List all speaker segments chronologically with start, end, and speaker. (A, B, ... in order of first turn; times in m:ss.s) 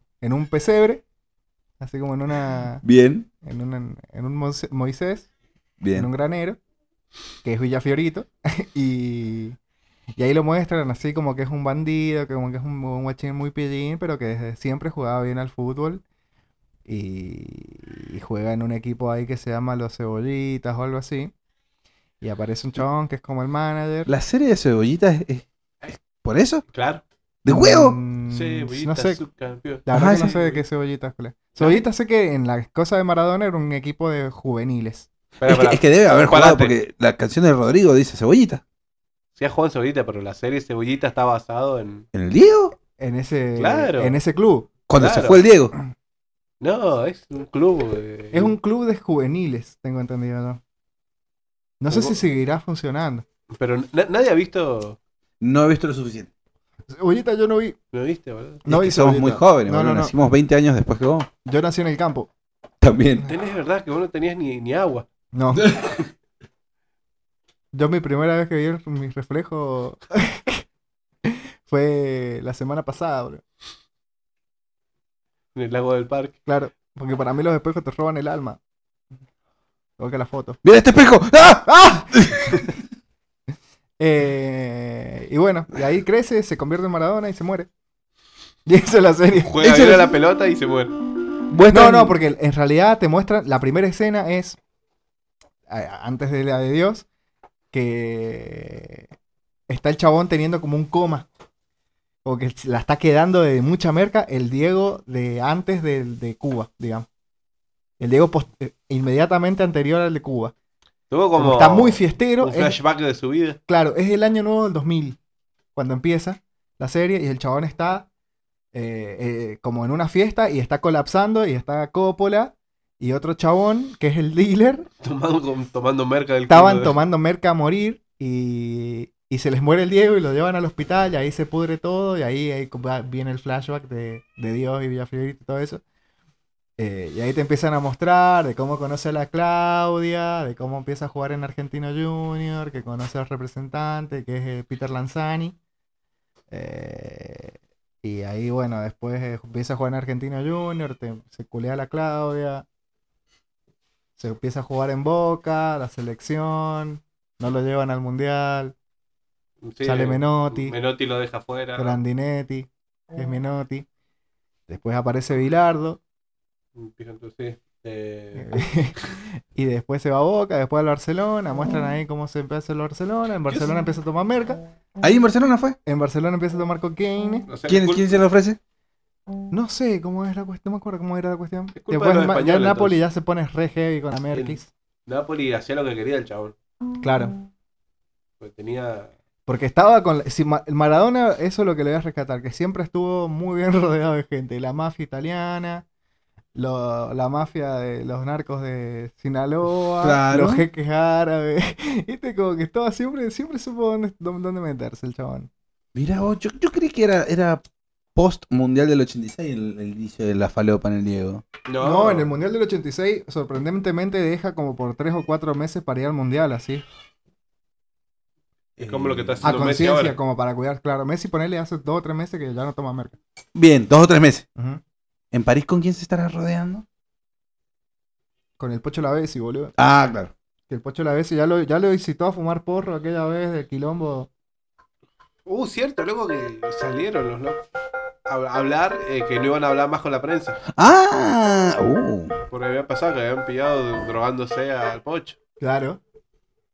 0:00.2-0:01.0 A
0:01.8-0:02.8 A
0:02.8-0:03.3 B
0:03.4-0:05.3 A
0:05.8-0:06.1 B
0:05.9-0:06.6 A
0:07.4-0:09.6 A
0:10.2-0:16.0 A
0:16.9-0:21.3 A
0:22.2-0:24.1 A
0:24.1-0:26.6 B
0:26.7-0:27.0 C
0:27.4-0:28.0 B
0:27.5-0:29.2 A
0:28.3-0:30.6 C
0:29.9-0:35.1 A
0:29.9-0:30.3 B
0:31.6-0:31.8 C
0:35.4-0:36.8 C
0:35.4-0:38.6 B
0:39.4-0:42.1 C
0:42.1-0:42.8 B
0:43.0-0:44.7 A
0:43.6-0:44.2 C
0:44.9-0:45.7 B
0:45.0-0:45.4 C
0:46.6-0:48.5 C
0:48.3-0:50.6 A
0:51.8-0:53.2 A
0:51.9-0:52.2 C
0:53.5-0:55.0 C
0:55.4-0:56.3 B
0:56.9-0:57.8 A
0:57.9-0:58.6 C
0:58.6-1:00.1 A
0:58.6-1:01.3 B
1:01.4-1:02.3 A
1:02.8-1:03.3 B
1:03.3-1:05.1 C
1:05.3-1:05.7 A
1:05.5-1:06.0 B
1:07.7-1:10.6 A
1:11.2-1:13.4 A
1:15.6-1:16.4 C
1:16.5-1:18.6 A
1:20.0-1:20.6 A
1:20.6-1:22.7 B
1:21.6-1:22.1 A
1:24.0-1:27.7 A
1:28.6-1:29.6 A
1:29.4-1:30.9 C
1:29.6-1:30.1 B
1:31.5-1:32.2 B
1:31.7-1:34.6 A
1:35.7-1:37.1 A
1:37.7-1:39.1 A
1:39.7-1:41.3 A
1:42.2-1:47.1 A
1:48.0-1:50.5 A
1:51.1-1:53.6 C
1:51.4-1:52.8 A
1:53.7-1:55.2 A
1:55.8-1:58.1 A
1:58.7-2:04.9 A
2:05.0-2:07.0 C
2:06.5-2:15.8 A
2:16.8-2:25.6 A
2:26.5-2:32.6 A
2:34.2-2:38.8 A
2:39.6-2:42.0 C
2:39.8-2:40.7 A
2:41.8-2:43.9 A
2:44.7-2:46.0 A
2:46.8-2:48.6 C
2:48.4-2:54.6 A
2:55.0-2:55.8 B
2:55.9-2:57.5 A
2:57.5-2:58.0 C
2:57.7-2:58.6 B
2:59.5-3:04.7 A
3:01.8-3:03.0 C
3:04.3-3:06.6 C
3:07.0-3:07.4 A
3:08.4-3:09.1 C
3:09.5-3:15.8 A
3:16.6-3:25.5 A
3:20.0-3:20.6 B
3:26.0-3:27.6 B
3:28.1-3:31.4 B
3:31.6-3:32.3 C
3:31.8-3:36.8 A
3:38.8-3:40.2 C
3:38.8-3:39.8 B
3:39.4-3:43.2 A
3:43.6-3:44.5 B
3:44.6-3:44.8 A
3:45.3-3:46.8 B
3:48.6-3:49.7 A
3:49.8-3:50.3 B
3:50.7-3:54.3 A
3:55.5-3:57.6 C
3:58.2-4:00.6 C
4:00.7-4:02.4 B
4:02.5-4:05.4 C
4:05.6-4:06.0 A